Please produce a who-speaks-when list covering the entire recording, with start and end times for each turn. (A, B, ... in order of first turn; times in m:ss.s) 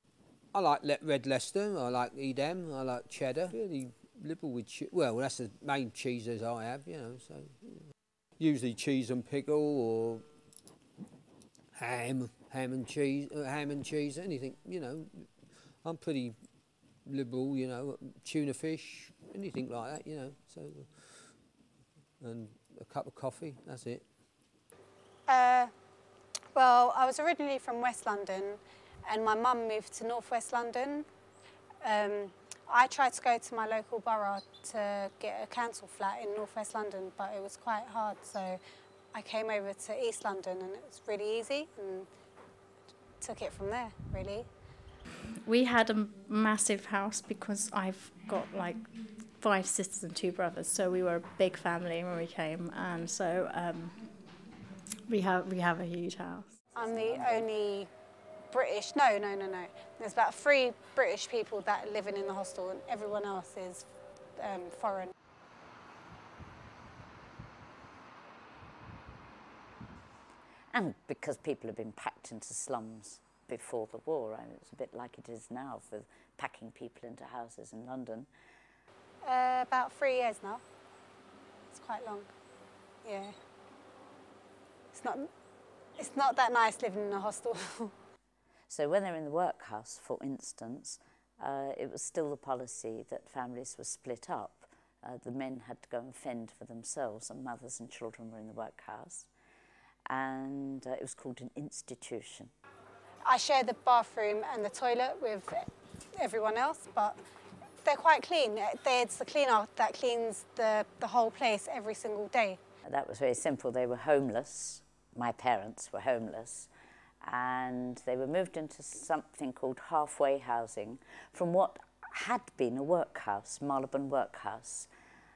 0:00.5-0:07.8 A
0:08.4-0:10.2 A
0:11.7-0:16.4 A
0:17.0-0:21.4 A
0:22.2-0:24.0 A
0:25.3-0:25.7 B
0:26.5-0:31.0 B
0:31.8-0:38.6 B
0:39.1-0:42.1 B
0:43.2-0:44.4 B
0:45.4-0:54.2 C
0:55.1-0:56.5 C
0:56.7-0:57.9 B
0:58.5-1:03.8 B
1:04.4-1:05.1 B
1:10.7-1:18.3 D
1:19.2-1:20.6 B
1:21.7-1:22.3 B
1:23.0-1:23.3 B
1:24.9-1:25.3 B
1:26.0-1:27.9 B
1:28.7-1:39.3 D
1:40.1-1:42.5 D
1:43.2-1:45.6 B
1:46.2-1:47.2 B
1:47.8-1:52.6 B
1:52.9-1:56.7 D
1:57.2-2:04.9 D